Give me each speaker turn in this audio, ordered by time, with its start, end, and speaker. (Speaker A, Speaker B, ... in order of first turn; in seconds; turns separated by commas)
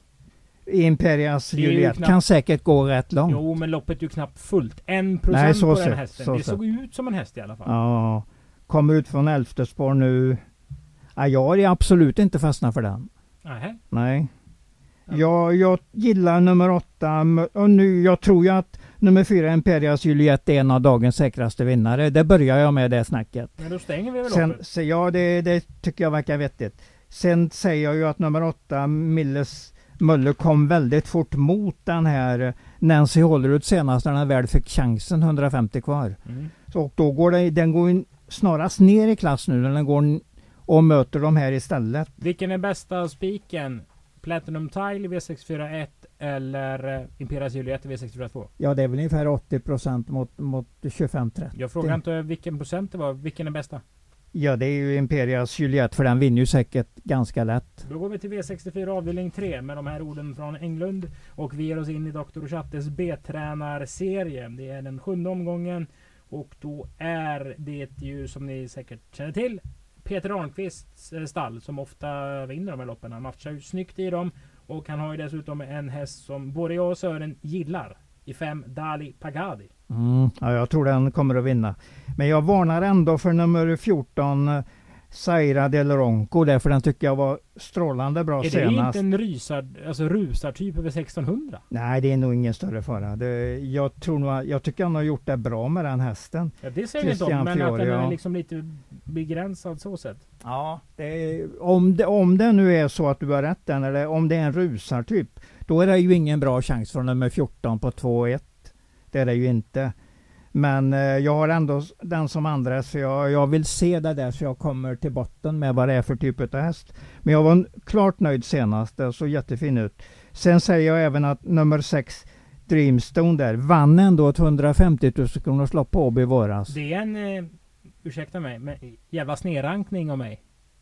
Speaker A: 0.7-3.4, Speaker B: 1.5-2.2, Speaker B: 3.3-7.7, Speaker A: 5.3-6.6, Speaker A: 7.7-10.4, Speaker A: 11.2-13.1, Speaker B: 13.4-13.8, Speaker A: 13.9-14.3, Speaker A: 15.1-23.6, Speaker B: 23.6-24.6, Speaker A: 24.2-36.2, Speaker B: 36.2-36.5, Speaker A: 36.7-42.1, Speaker B: 42.2-48.5, Speaker A: 48.6-52.0, Speaker B: 51.5-53.8, Speaker A: 54.3-57.8, Speaker B: 57.8-79.7, Speaker A: 79.9-89.0, Speaker B: 88.4-91.6, Speaker A: 91.7-98.2, Speaker B: 96.6-100.2, Speaker A: 100.4-109.9, Speaker A: 110.5-126.7, Speaker B: 126.7-127.5, Speaker B: 128.0-130.4